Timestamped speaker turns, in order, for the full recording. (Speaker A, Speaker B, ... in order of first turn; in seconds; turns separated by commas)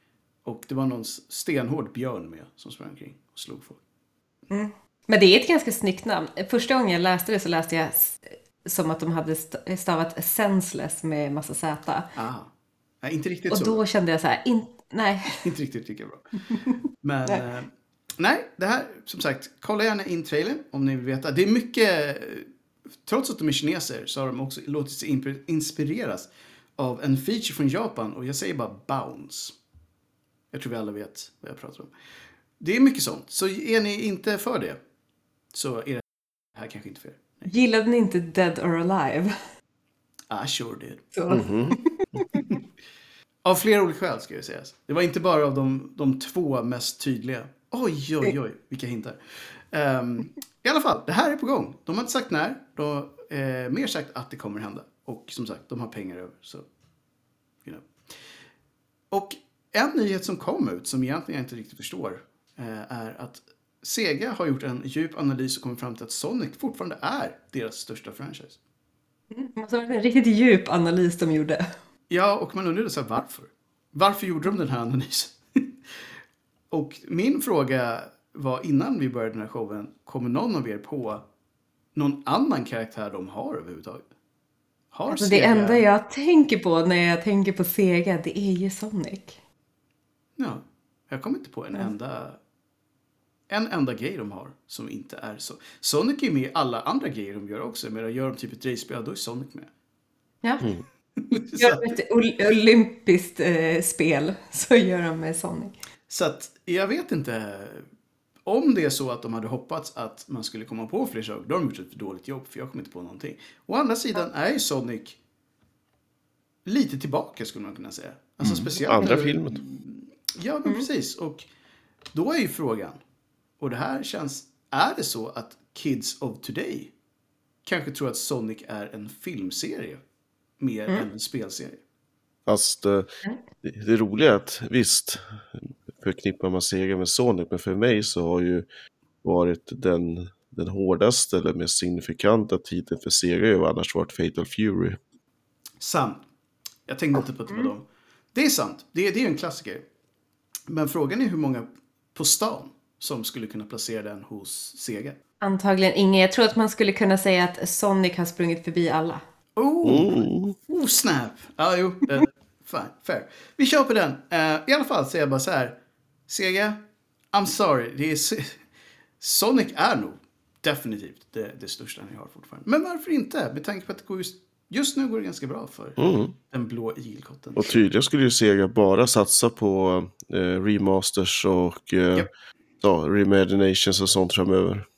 Speaker A: 0.4-3.8, Speaker B: 4.5-12.1, Speaker A: 12.1-12.5, Speaker A: 13.0-13.8, Speaker B: 13.5-15.4, Speaker A: 15.3-16.3, Speaker A: 17.0-22.5, Speaker A: 23.0-29.5, Speaker A: 30.5-31.9, Speaker A: 32.6-34.8, Speaker A: 35.5-37.5, Speaker B: 37.4-39.3, Speaker A: 40.3-41.1, Speaker B: 41.1-42.5, Speaker C: 41.3-42.2, Speaker A: 43.4-56.6, Speaker A: 59.1-68.6, Speaker B: 69.3-71.7, Speaker A: 72.1-76.1, Speaker A: 76.7-81.2, Speaker A: 81.9-84.0, Speaker A: 84.9-85.8, Speaker B: 85.1-89.4, Speaker A: 90.4-92.4, Speaker A: 93.5-99.7, Speaker A: 101.2-102.0, Speaker B: 101.5-105.7, Speaker A: 106.1-107.8, Speaker A: 108.4-115.2, Speaker A: 116.7-121.4, Speaker C: 118.4-119.7, Speaker A: 122.1-123.0, Speaker A: 123.6-126.9, Speaker A: 127.6-130.0, Speaker A: 130.6-131.8, Speaker C: 132.5-133.1, Speaker C: 133.6-138.7, Speaker C: 139.2-145.0, Speaker A: 145.8-146.2, Speaker A: 146.9-149.8, Speaker A: 150.7-155.2, Speaker B: 155.4-159.2, Speaker A: 159.6-165.8, Speaker C: 159.8-160.6, Speaker A: 166.3-166.8, Speaker A: 167.3-168.6, Speaker A: 169.2-177.8, Speaker C: 176.0-176.3, Speaker C: 177.6-182.3, Speaker C: 182.8-184.8